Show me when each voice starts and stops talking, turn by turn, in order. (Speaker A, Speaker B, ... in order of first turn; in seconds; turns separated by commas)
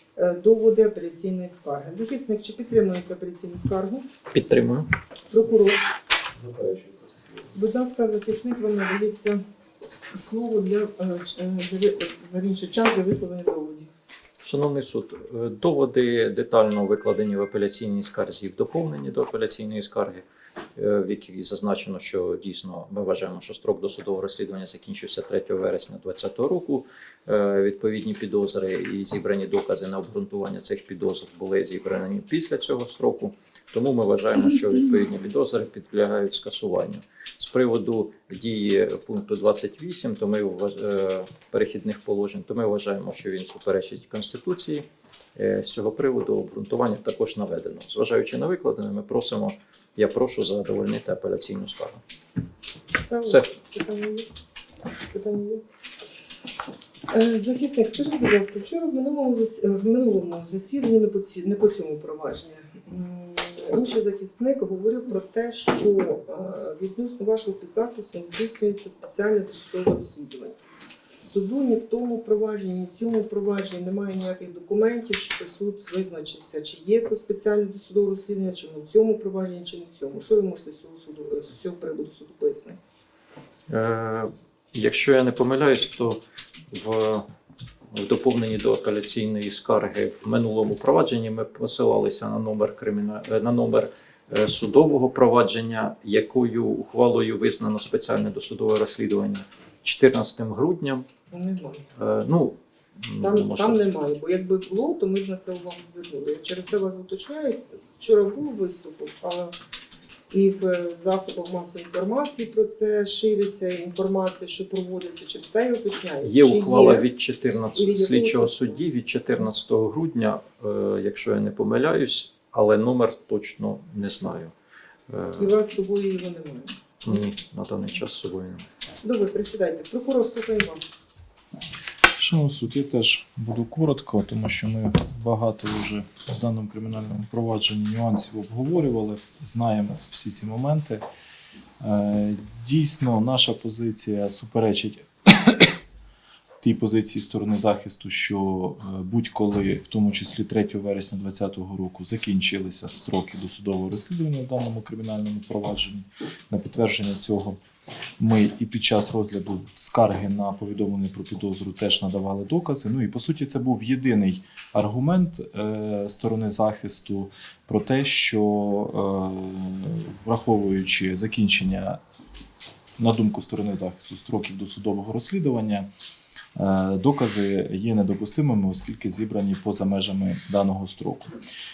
Speaker A: 0.2-4.0, Speaker B: 4.3-4.9, Speaker A: 5.3-5.8, Speaker C: 6.3-7.5, Speaker A: 7.5-9.4, Speaker A: 10.1-13.9, Speaker B: 14.4-52.0, Speaker A: 53.0-54.3, Speaker A: 55.1-55.6, Speaker A: 57.1-70.6, Speaker A: 71.2-82.8, Speaker B: 83.7-86.2, Speaker B: 86.7-87.2, Speaker B: 87.9-101.0, Speaker A: 101.3-101.9, Speaker B: 102.0-103.8, Speaker A: 103.2-109.5, Speaker A: 110.3-117.0, Speaker B: 116.2-124.5, Speaker A: 117.7-118.8, Speaker B: 125.1-125.5, Speaker A: 125.4-126.8, Speaker B: 127.0-128.7, Speaker A: 129.0-130.9, Speaker C: 132.2-141.0, Speaker C: 141.8-145.8, Speaker C: 146.6-157.6, Speaker C: 158.2-172.0, Speaker C: 173.0-175.9, Speaker C: 176.5-181.3